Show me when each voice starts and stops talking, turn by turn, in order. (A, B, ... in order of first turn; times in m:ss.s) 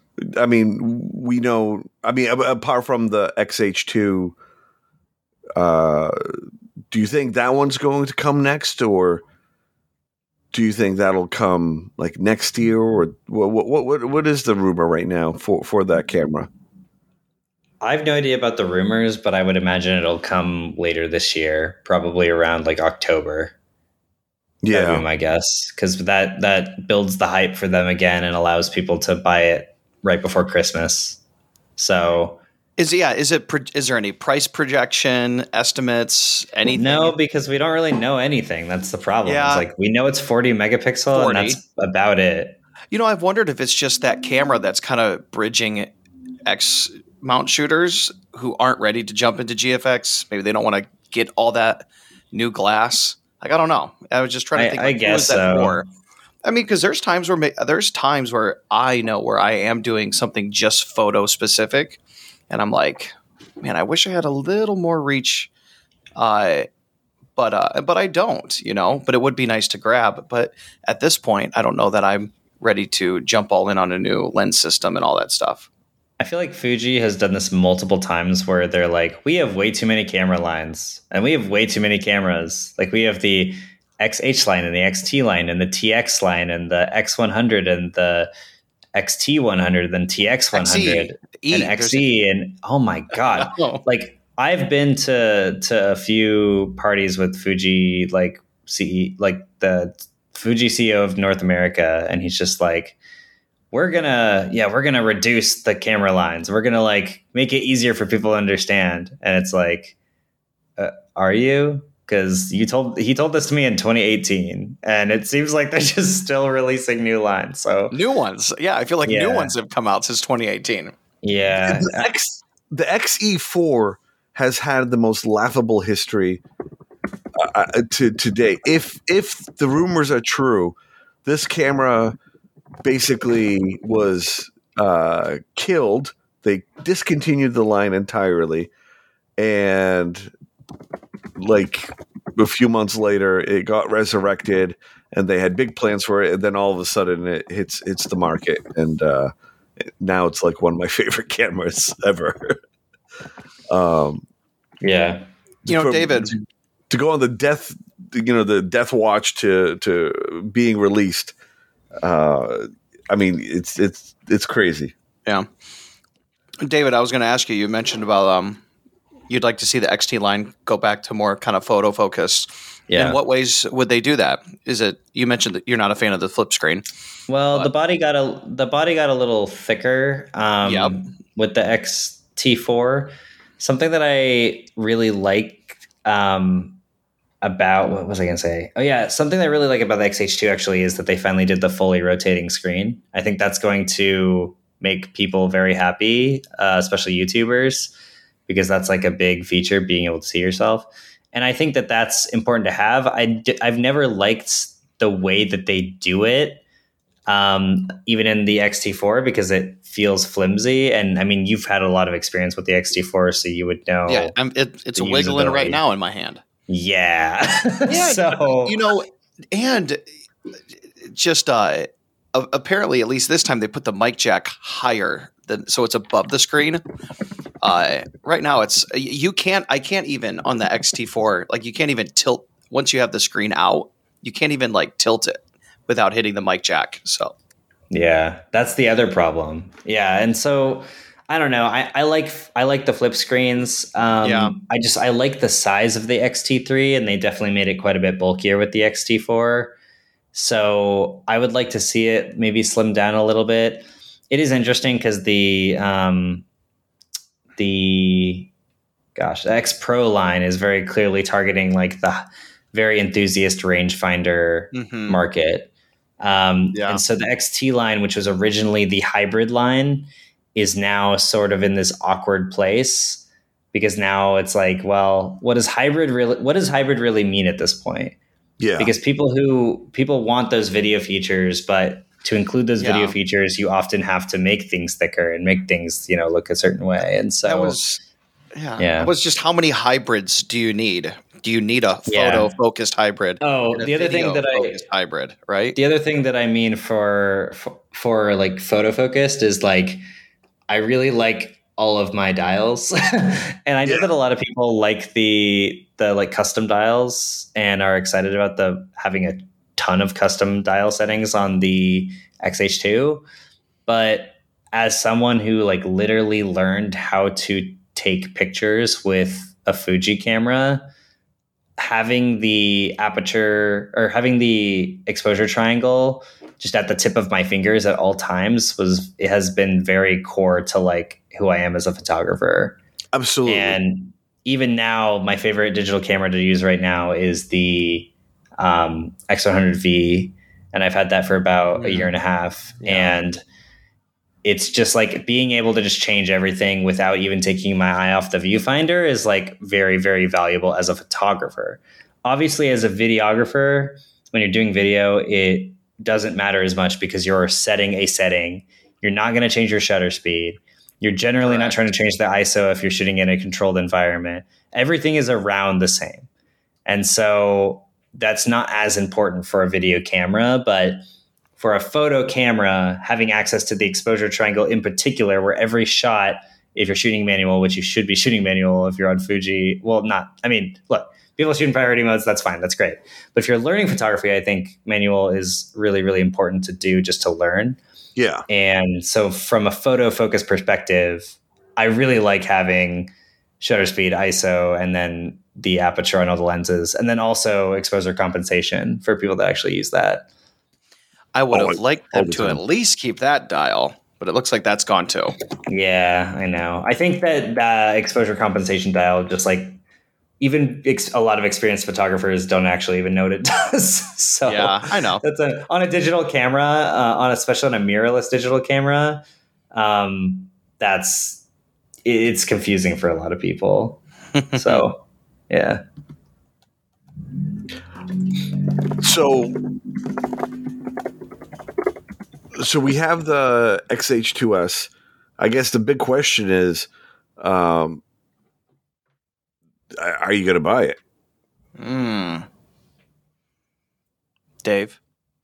0:00.2-0:04.4 A
0:05.6-0:06.4 A
0:06.9-0:09.2 A
0:10.5-0:16.5 A
0:17.8-0:23.5 B
0:24.6-0:25.0 A
0:24.7-0:31.2 B
0:31.8-0:32.4 B
0:32.8-0:37.1 C
0:36.7-0:42.6 B
0:39.2-0:39.6 C
0:41.1-0:41.6 C
0:42.9-0:45.9 C
0:46.4-0:55.9 C
0:54.6-0:55.8 B
0:56.4-1:02.0 C
1:02.5-1:05.5 C
1:06.2-1:06.7 C
1:07.4-1:15.7 C
1:16.2-1:28.3 B
1:28.9-1:43.0 B
1:30.5-1:32.1 C
1:33.1-1:33.8 C
1:43.7-1:49.9 B
1:50.8-1:58.0 B
1:57.9-2:00.9 C
1:59.0-1:59.5 B
2:01.2-2:02.1 B
2:01.6-2:06.4 A
2:07.4-2:12.2 A
2:12.8-2:18.7 A
2:19.4-2:20.3 A
2:21.4-2:29.3 A
2:29.8-2:32.6 A
2:33.7-2:34.2 A
2:34.8-2:35.3 B
2:35.6-2:36.3 C
2:35.6-2:41.3 A
2:42.0-2:44.9 A
2:46.6-2:48.6 C
2:49.3-2:56.8 C
2:52.9-2:53.2 B
2:57.3-3:06.8 B
3:00.6-3:01.0 C
3:07.4-3:17.9 B
3:18.5-3:26.6 B
3:27.3-3:34.3 B
3:34.1-3:36.4 C
3:35.0-3:35.8 B
3:36.7-3:38.8 B
3:37.9-3:40.0 C
3:41.0-3:46.8 C
3:47.6-3:57.3 C
3:57.9-4:09.7 B
4:04.2-4:04.5 C
4:10.3-4:16.4 B
4:17.6-4:18.5 B
4:19.2-4:38.2 B
4:24.7-4:25.2 C
4:26.7-4:27.0 C
4:38.6-4:38.9 A
4:38.8-4:47.8 B
4:42.8-4:43.2 C
4:47.4-4:48.0 C
4:48.5-4:55.8 C
4:48.8-4:49.1 B
4:52.1-4:52.5 B
4:53.4-4:54.8 B
4:55.7-5:00.0 B
5:00.7-5:13.2 B
5:13.8-5:20.9 B
5:21.8-5:32.8 B
5:33.1-5:33.8 A
5:33.4-5:43.4 B
5:41.8-5:42.1 C
5:42.8-5:43.2 C
5:44.4-6:06.3 B
6:01.4-6:01.8 C
6:06.8-6:11.0 B
6:11.6-6:27.8 B
6:28.2-6:28.4 A
6:28.5-6:40.3 B
6:41.3-6:45.4 C
6:41.5-6:42.6 A
6:45.7-6:49.8 B
6:50.4-7:01.4 B
6:54.5-6:55.2 C
7:02.0-7:04.0 B
7:04.4-7:04.8 C
7:04.5-7:05.8 B
7:09.0-7:09.6 A
7:12.5-7:18.0 A
7:20.0-7:21.0 A
7:21.8-7:22.5 C
7:24.6-7:25.0 C